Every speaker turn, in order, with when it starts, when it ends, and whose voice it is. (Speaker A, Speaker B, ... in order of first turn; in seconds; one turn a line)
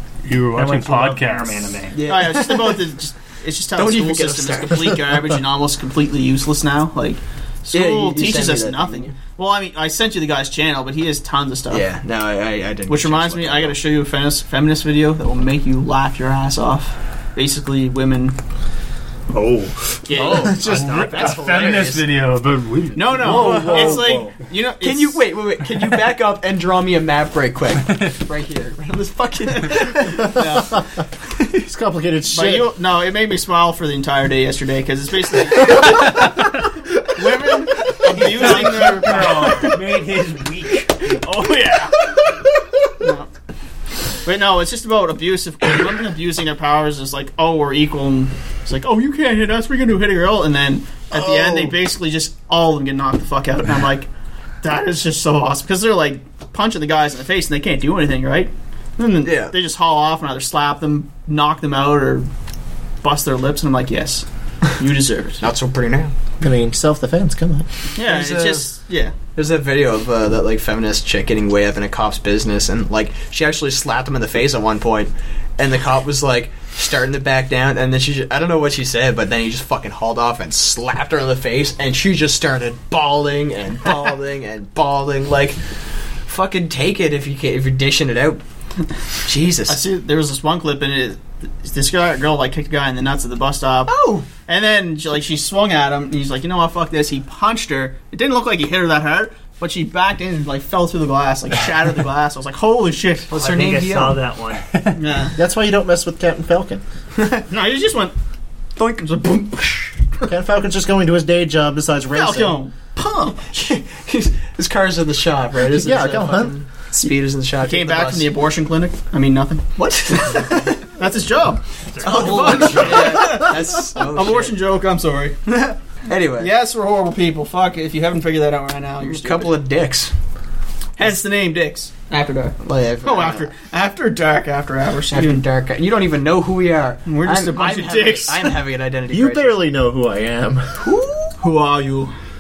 Speaker A: 0.2-1.8
Speaker B: 0.5-2.0
Speaker C: 1.9-2.8
Speaker D: 2.0-11.8
Speaker C: 3.8-5.2
Speaker C: 7.7-9.1
Speaker C: 11.7-13.8
Speaker D: 12.9-18.4
Speaker B: 19.3-21.5
Speaker D: 20.1-20.7
Speaker C: 20.1-22.1
Speaker E: 20.2-21.0
Speaker A: 20.6-23.7
Speaker D: 22.9-25.2
Speaker E: 23.2-24.3
Speaker C: 23.2-24.1
Speaker C: 24.8-30.8
Speaker D: 29.6-30.7
Speaker E: 31.6-32.7
Speaker D: 32.3-36.4
Speaker D: 37.1-39.8
Speaker B: 38.0-41.2
Speaker D: 41.0-42.1
Speaker D: 43.0-43.3
Speaker D: 44.2-54.1
Speaker C: 51.1-51.8
Speaker D: 54.6-62.3
Speaker C: 59.2-59.5
Speaker D: 63.0-65.4
Speaker C: 65.4-66.1
Speaker E: 66.4-67.7
Speaker D: 68.0-69.1
Speaker C: 68.0-68.7
Speaker C: 69.3-85.6
Speaker C: 86.2-88.4
Speaker C: 89.2-89.8
Speaker D: 89.7-103.3
Speaker C: 93.9-94.3
Speaker C: 103.3-104.2
Speaker B: 103.3-104.8
Speaker D: 104.9-105.4
Speaker E: 105.4-106.8
Speaker C: 107.2-107.4
Speaker D: 107.5-108.1
Speaker C: 108.8-109.3
Speaker D: 109.0-109.9
Speaker E: 110.2-112.6
Speaker D: 112.1-113.5
Speaker C: 113.5-118.3
Speaker E: 115.7-116.5
Speaker D: 117.6-125.4
Speaker C: 119.8-120.8
Speaker B: 121.9-123.3
Speaker C: 122.0-124.5
Speaker C: 125.5-126.5
Speaker D: 126.4-129.6
Speaker C: 129.0-130.1
Speaker D: 131.0-135.4
Speaker C: 132.6-133.5
Speaker C: 135.1-139.6
Speaker D: 137.1-138.6
Speaker E: 139.1-140.8
Speaker C: 140.8-141.3
Speaker D: 141.4-142.1